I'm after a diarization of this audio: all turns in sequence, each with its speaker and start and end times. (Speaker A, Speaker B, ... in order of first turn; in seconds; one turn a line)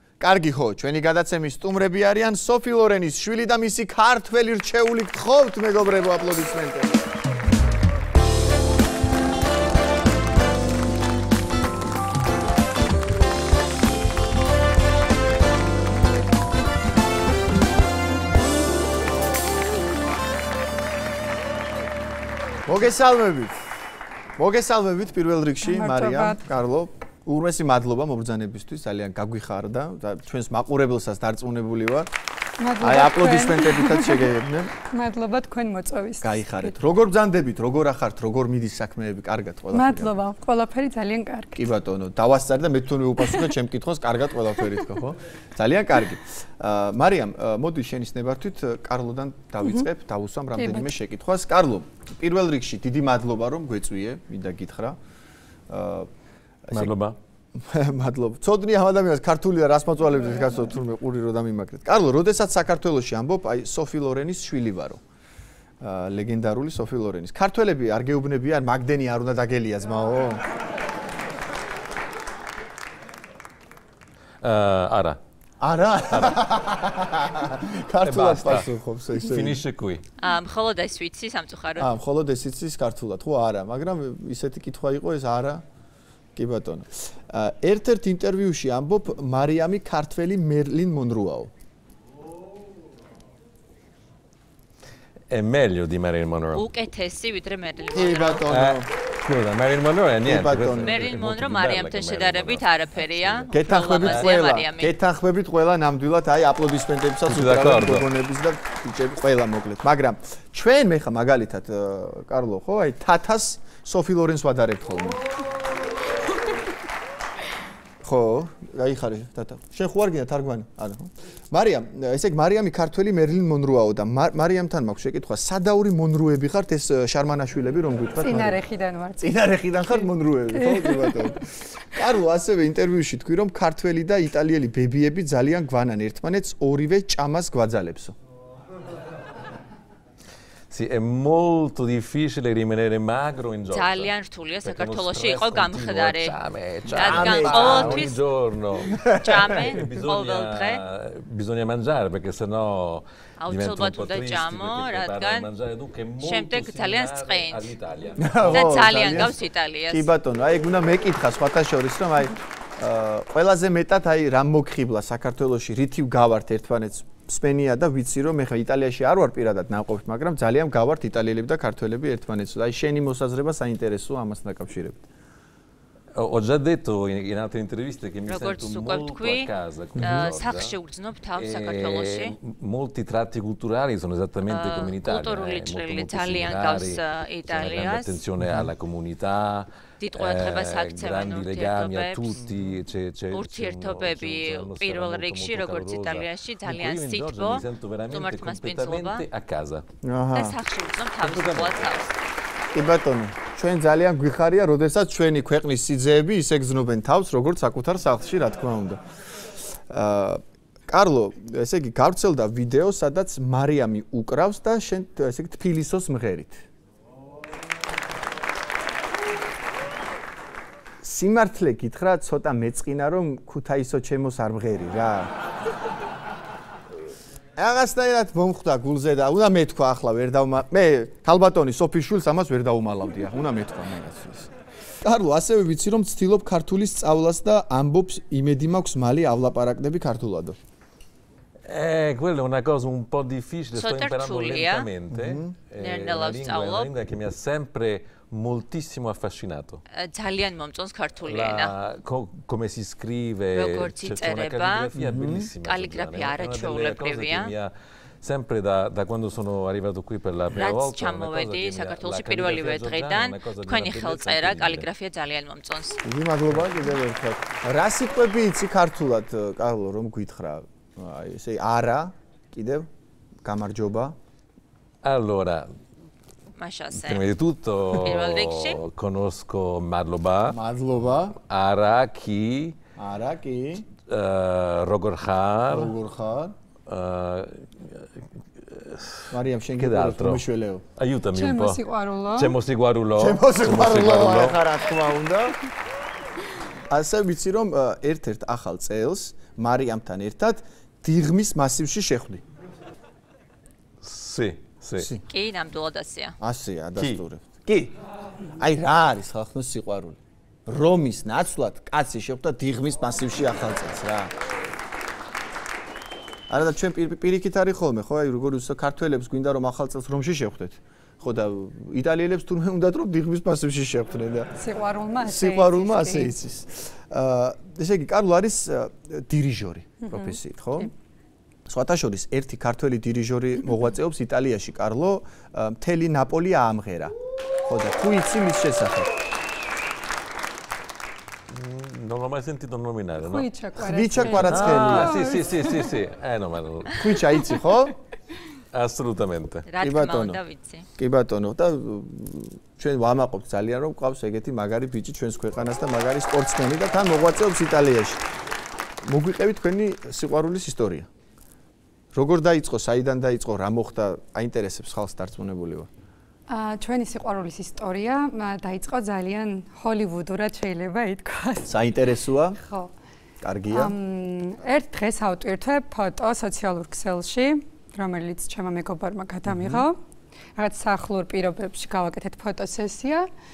Speaker A: 0.2-7.0
Speaker A: 22.6-23.6
Speaker A: 24.4-32.1
Speaker B: 25.6-26.4
Speaker B: 32.6-34.4
Speaker A: 32.8-34.7
Speaker B: 34.9-36.7
Speaker A: 36.2-40.1
Speaker B: 39.7-41.6
Speaker A: 41.5-55.0
Speaker B: 50.5-50.9
Speaker A: 55.7-56.1
Speaker A: 56.6-56.9
Speaker C: 56.7-57.2
Speaker A: 57.5-65.0
Speaker A: 65.8-70.4
Speaker C: 74.4-75.2
Speaker A: 75.6-79.6
Speaker C: 76.1-76.4
Speaker C: 78.0-80.0
Speaker D: 80.2-81.9
Speaker A: 81.8-85.6
Speaker A: 86.3-91.5
Speaker C: 95.3-96.7
Speaker D: 96.5-98.4
Speaker A: 97.9-98.9
Speaker C: 98.5-104.3
Speaker A: 100.2-101.0
Speaker D: 100.8-105.0
Speaker A: 103.5-115.2
Speaker C: 107.2-108.1
Speaker A: 118.0-128.6
Speaker B: 128.2-131.3
Speaker A: 129.2-138.1
Speaker C: 140.7-159.5
Speaker D: 143.7-148.2
Speaker A: 146.9-148.1
Speaker A: 148.9-149.4
Speaker D: 149.2-150.8
Speaker D: 153.4-155.5
Speaker D: 156.2-157.7
Speaker A: 158.2-175.0
Speaker D: 158.3-160.1
Speaker C: 176.1-180.8
Speaker D: 178.3-182.3
Speaker C: 181.3-199.8
Speaker D: 184.4-188.2
Speaker D: 190.0-192.4
Speaker D: 193.3-199.2
Speaker A: 200.0-200.6
Speaker D: 200.3-202.1
Speaker C: 201.2-201.8
Speaker A: 202.7-209.0
Speaker A: 209.9-216.7
Speaker A: 221.0-225.3
Speaker A: 227.6-234.5
Speaker A: 235.0-240.6
Speaker C: 241.7-249.8
Speaker D: 243.7-244.9
Speaker A: 245.1-245.6
Speaker D: 245.8-246.9
Speaker D: 249.9-251.7
Speaker C: 251.2-264.9
Speaker D: 253.5-254.9
Speaker A: 255.0-255.5
Speaker D: 255.6-257.5
Speaker D: 260.5-266.0
Speaker A: 266.0-272.9
Speaker A: 273.4-274.1
Speaker C: 275.0-275.7
Speaker D: 276.6-277.2
Speaker C: 276.9-280.6
Speaker D: 277.9-278.8
Speaker A: 280.5-281.3
Speaker C: 281.3-282.8
Speaker A: 283.0-283.9
Speaker C: 283.9-285.9
Speaker A: 285.7-286.5
Speaker C: 286.9-288.1
Speaker C: 288.6-290.4
Speaker A: 289.3-290.8
Speaker C: 291.0-291.8
Speaker B: 291.3-292.5
Speaker C: 292.3-294.6
Speaker A: 293.2-295.6
Speaker A: 296.9-302.4
Speaker C: 304.0-305.1
Speaker A: 305.0-305.2
Speaker D: 305.3-306.3
Speaker A: 306.4-307.9
Speaker A: 308.6-314.3
Speaker A: 316.5-324.5
Speaker B: 324.6-326.4
Speaker A: 325.2-330.9
Speaker B: 330.0-330.9
Speaker A: 331.6-337.1
Speaker A: 337.7-339.1
Speaker C: 341.5-343.5
Speaker B: 343.2-345.8
Speaker A: 343.8-345.2
Speaker C: 344.3-347.0
Speaker A: 347.0-347.9
Speaker C: 348.7-349.7
Speaker D: 349.7-350.9
Speaker A: 349.8-350.4
Speaker A: 351.0-358.2
Speaker A: 359.0-361.1
Speaker A: 362.1-365.9
Speaker B: 366.5-371.7
Speaker A: 371.6-372.6
Speaker B: 372.6-372.9
Speaker A: 373.4-373.9
Speaker B: 373.7-380.0
Speaker A: 379.4-379.9
Speaker B: 380.6-383.3